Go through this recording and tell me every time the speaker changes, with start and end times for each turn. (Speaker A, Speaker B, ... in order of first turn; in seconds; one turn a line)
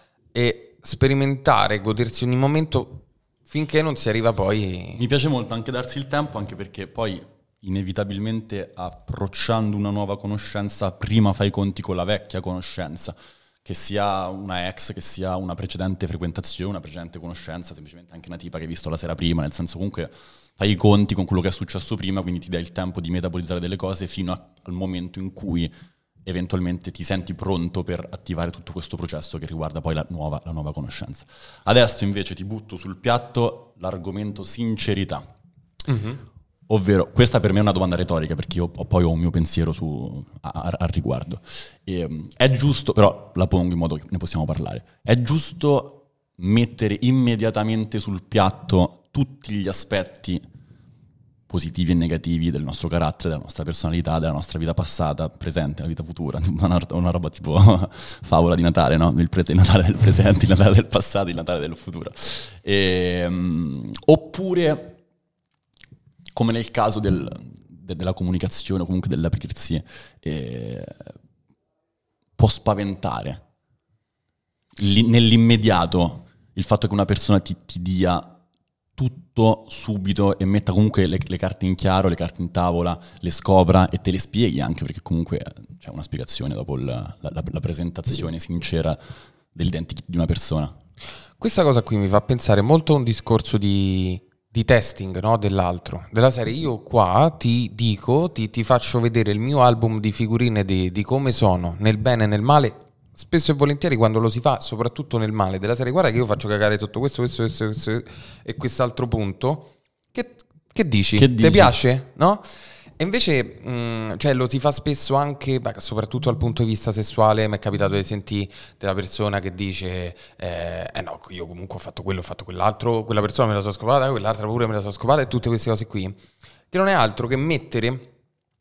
Speaker A: 0.3-5.0
Speaker B: 5.0-25.7
Speaker B: 26.2-35.2
Speaker A: 35.9-36.2
Speaker B: 36.7-50.4
Speaker B: 51.5-65.0
Speaker B: 66.3-71.1
Speaker B: 72.4-73.4
Speaker B: 74.8-78.3
Speaker B: 79.0-89.0
Speaker B: 89.5-90.7
Speaker A: 91.4-112.5
Speaker B: 111.2-111.8
Speaker A: 113.0-126.2
Speaker A: 126.7-128.1